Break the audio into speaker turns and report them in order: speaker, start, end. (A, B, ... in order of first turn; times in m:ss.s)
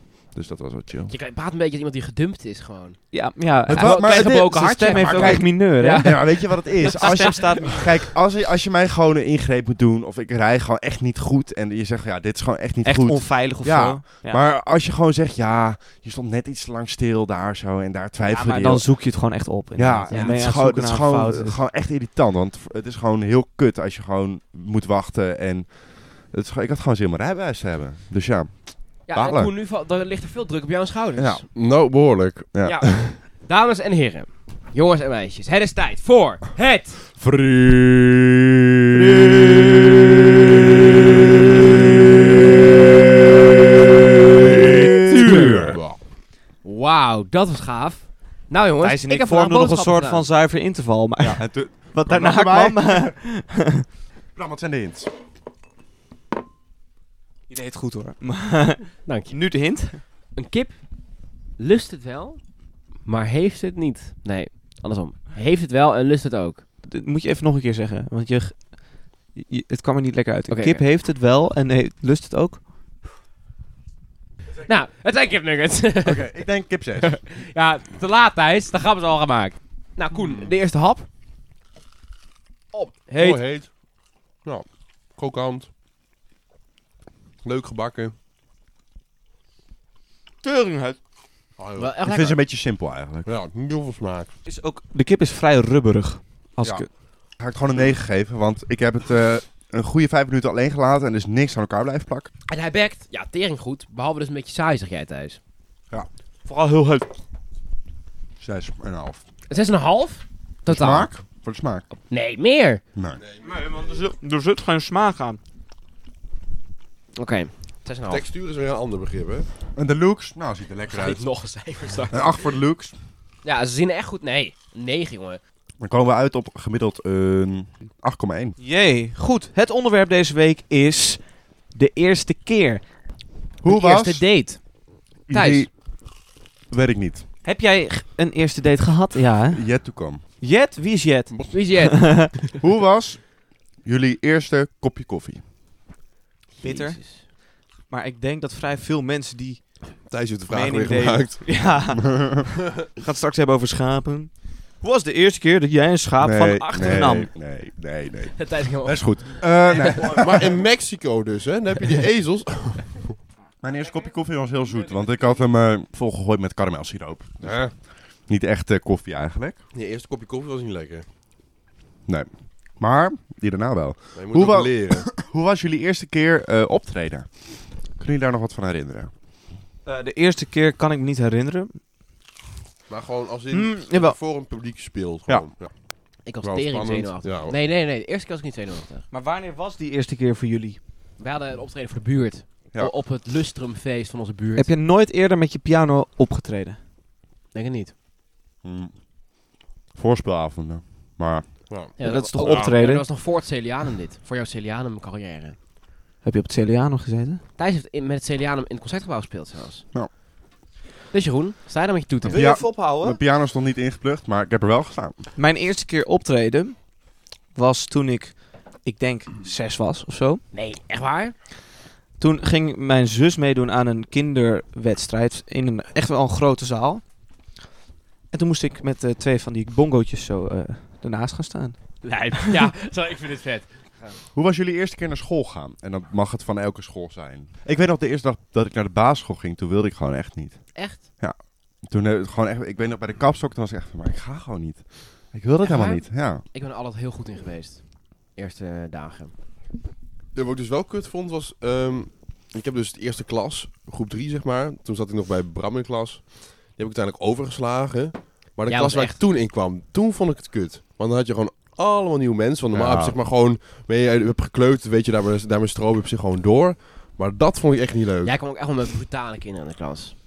0:00.3-0:01.1 A
0:01.1-0:03.1 B
0:03.1-0:07.8 C
0:03.6-0:07.9 B
0:03.7-0:19.0 A
0:12.8-0:14.4 C
0:18.3-0:21.6 C
0:19.8-0:29.5 A
0:20.1-0:20.4 B
0:29.1-0:31.4 B
0:31.2-0:31.4 A
0:31.6-0:33.1 D
0:32.6-0:37.1 B
0:37.1-0:39.7 A
0:44.3-0:45.8 A
0:45.2-0:46.0 D
0:45.2-0:45.7 B
0:46.6-0:50.3 B
0:48.8-0:53.8 C
0:51.2-0:53.2 A
0:54.4-0:55.1 A
0:57.5-1:00.0 C
0:59.1-1:06.6 B
1:06.9-1:12.6 C
1:10.5-1:10.8 B
1:14.7-1:16.3 B
1:16.0-1:17.2 A
1:17.0-1:21.1 B
1:22.7-1:23.4 B
1:23.2-1:23.8 D
1:24.4-1:25.7 D
1:27.4-1:28.1 D
1:30.4-1:31.0 C
1:31.6-1:32.0 D
1:31.8-1:32.4 B
1:32.0-1:33.3 A
1:33.2-1:34.3 D
1:34.4-1:36.9 C
1:36.6-1:42.3 A
1:42.5-1:45.4 B
1:46.4-1:47.1 C
1:48.4-1:49.2 A
1:49.5-1:51.1 B
1:50.7-1:51.9 A
1:52.1-1:52.8 B
1:53.0-1:53.2 A
1:53.2-1:53.5 D
1:53.4-1:55.4 C
1:57.2-1:58.2 B
1:58.1-1:59.5 D
1:59.8-2:01.2 A
2:00.9-2:02.4 B
2:02.1-2:03.0 A
2:03.4-2:05.4 B
2:05.8-2:08.6 A
2:08.6-2:12.9 C
2:13.6-2:14.2 A
2:13.7-2:14.7 B
2:15.2-2:15.7 B
2:15.3-2:15.7 A
2:16.7-2:17.2 A
2:17.4-2:22.3 C
2:19.5-2:20.2 A
2:21.5-2:22.5 B
2:22.6-2:25.4 A
2:26.6-2:27.2 B
2:26.6-2:27.3 C
2:27.9-2:37.3 C
2:30.1-2:31.7 D
2:36.2-2:40.6 A
2:38.3-2:40.1 B
2:40.2-2:43.0 D
2:43.6-2:49.6 A
2:47.4-2:47.7 D
2:49.7-2:51.1 D
2:52.1-2:59.1 A
2:54.2-2:55.1 D
2:59.9-3:01.8 C
3:02.9-3:07.6 D
3:03.5-3:04.2 C
3:06.2-3:09.1 B
3:09.1-3:10.8 C
3:11.2-3:14.7 B
3:14.6-3:16.8 C
3:17.5-3:17.9 B
3:18.6-3:19.0 A
3:19.9-3:21.7 A
3:21.7-3:22.7 D
3:22.0-3:25.6 B
3:22.0-3:23.0 C
3:26.2-3:27.4 C
3:27.6-3:29.8 B
3:31.1-3:32.4 B
3:32.3-3:35.3 A
3:32.3-3:33.2 C
3:35.4-3:36.9 C
3:37.5-3:40.4 C
3:40.5-3:41.4 B
3:42.2-3:47.0 C
3:48.3-3:52.4 C
3:52.0-3:54.2 B
3:54.3-4:06.4 A
4:00.7-4:01.1 B
4:05.6-4:09.3 B
4:10.4-4:28.4 D
4:18.7-4:19.2 B
4:22.7-4:23.2 A
4:28.2-4:30.2 B